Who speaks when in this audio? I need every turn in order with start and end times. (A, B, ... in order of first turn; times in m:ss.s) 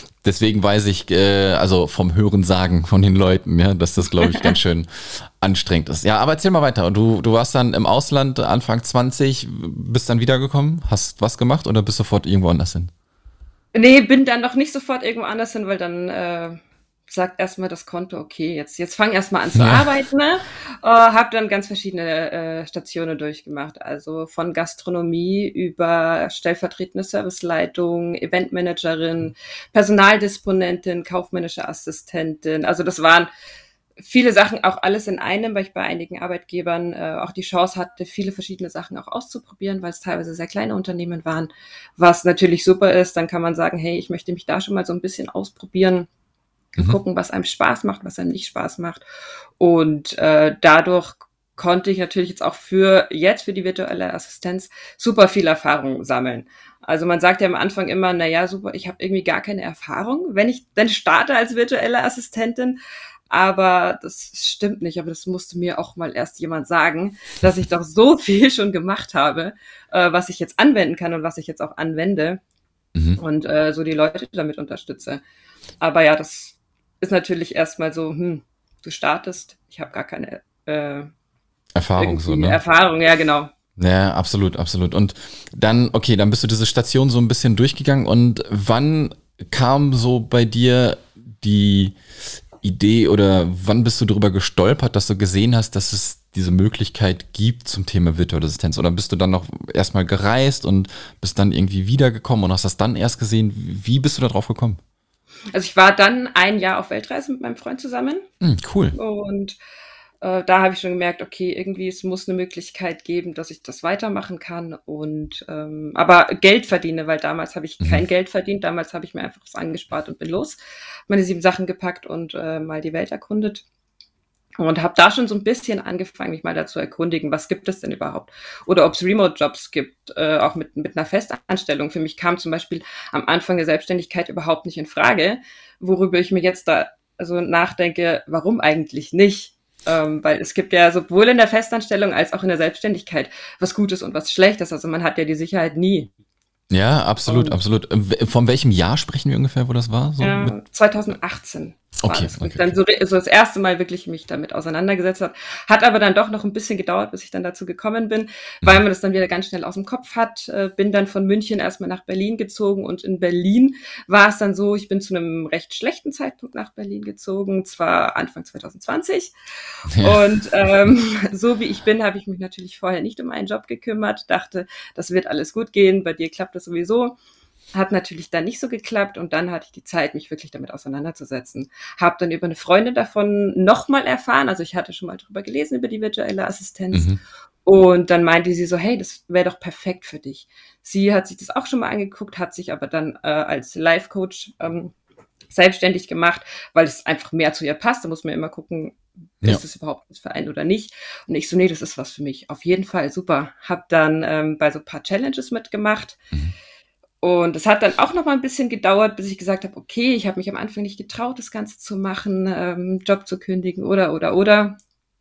0:00.2-0:12.9 A
0:04.2-0:04.6 B
0:13.7-0:33.3 B
0:19.5-0:19.8 A
0:34.0-0:46.1 B
0:46.7-0:49.0 B
0:49.6-1:12.4 B
1:12.9-1:13.2 A
1:13.2-1:15.2 B
1:15.8-1:21.1 B
1:21.8-1:22.6 A
1:22.0-1:23.5 B
1:23.8-1:32.0 A
1:32.6-1:44.8 A
1:45.5-1:48.2 B
1:48.4-1:49.0 A
1:48.9-1:49.6 B
1:50.2-2:00.6 B
2:01.1-2:03.6 B
2:04.6-2:26.1 B
2:26.7-2:30.5 A
2:27.3-2:27.6 B
2:30.2-2:49.3 B
2:32.0-2:32.7 A
2:49.9-2:50.2 A
2:50.0-2:57.2 B
2:57.7-3:07.1 B
3:06.9-3:07.2 A
3:07.6-3:14.9 B
3:15.5-3:26.2 B
3:27.2-3:34.8 B